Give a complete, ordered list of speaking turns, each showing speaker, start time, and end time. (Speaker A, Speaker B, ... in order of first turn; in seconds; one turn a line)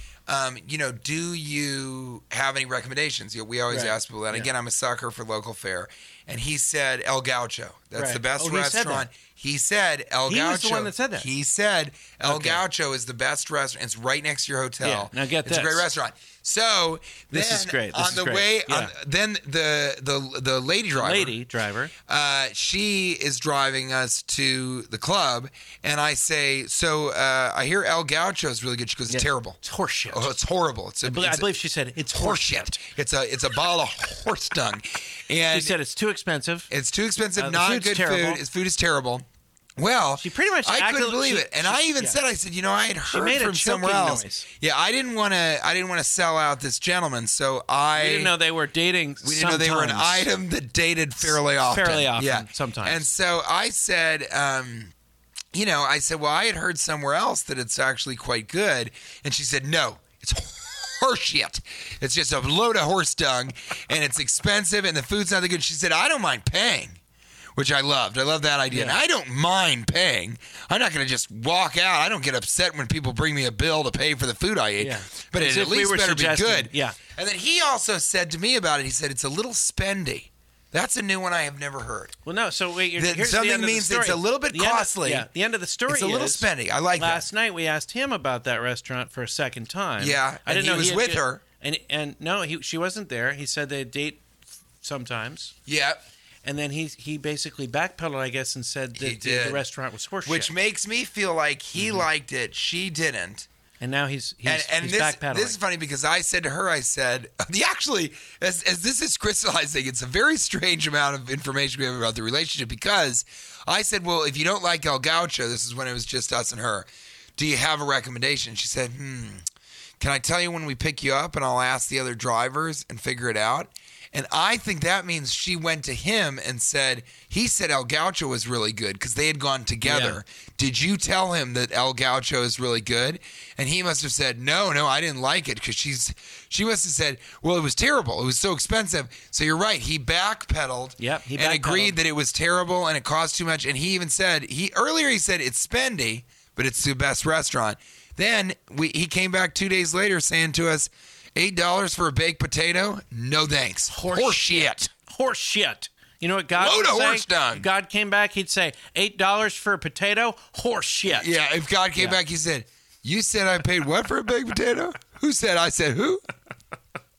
Speaker A: 0.3-21.3
Speaker B: 3.7-4.5
Speaker B: 8.0-9.1
Speaker B: 10.3-11.3
Speaker B: 12.2-12.6
Speaker B: 14.8-15.9
Speaker B: 17.3-18.9
Speaker B: 20.9-21.9
Speaker A: 22.1-29.6
Speaker B: 29.1-30.3
Speaker A: 30.1-31.5
Speaker B: 31.0-32.8
Speaker A: 32.1-35.8
Speaker B: 35.5-36.7
Speaker A: 36.7-39.2
Speaker B: 37.4-38.4
Speaker A: 39.8-48.3
Speaker B: 40.2-42.2
Speaker B: 43.1-44.5
Speaker B: 47.9-50.3
Speaker A: 49.2-54.9
Speaker B: 51.2-53.0
Speaker A: 55.5-67.0
Speaker A: 67.5-82.1
Speaker B: 68.7-69.0
Speaker B: 74.8-77.0
Speaker B: 82.2-95.5
Speaker A: 83.0-85.3
Speaker A: 85.9-87.2
Speaker A: 90.0-91.4
Speaker A: 95.7-96.0
Speaker B: 96.4-100.5
Speaker A: 99.0-99.6
Speaker A: 100.2-103.5
Speaker B: 101.8-102.0
Speaker B: 103.8-105.6
Speaker A: 104.4-119.4
Speaker A: 120.0-154.9
Speaker B: 129.8-130.2
Speaker B: 141.0-142.0
Speaker B: 153.9-161.3
Speaker A: 156.5-157.7
Speaker A: 161.1-166.2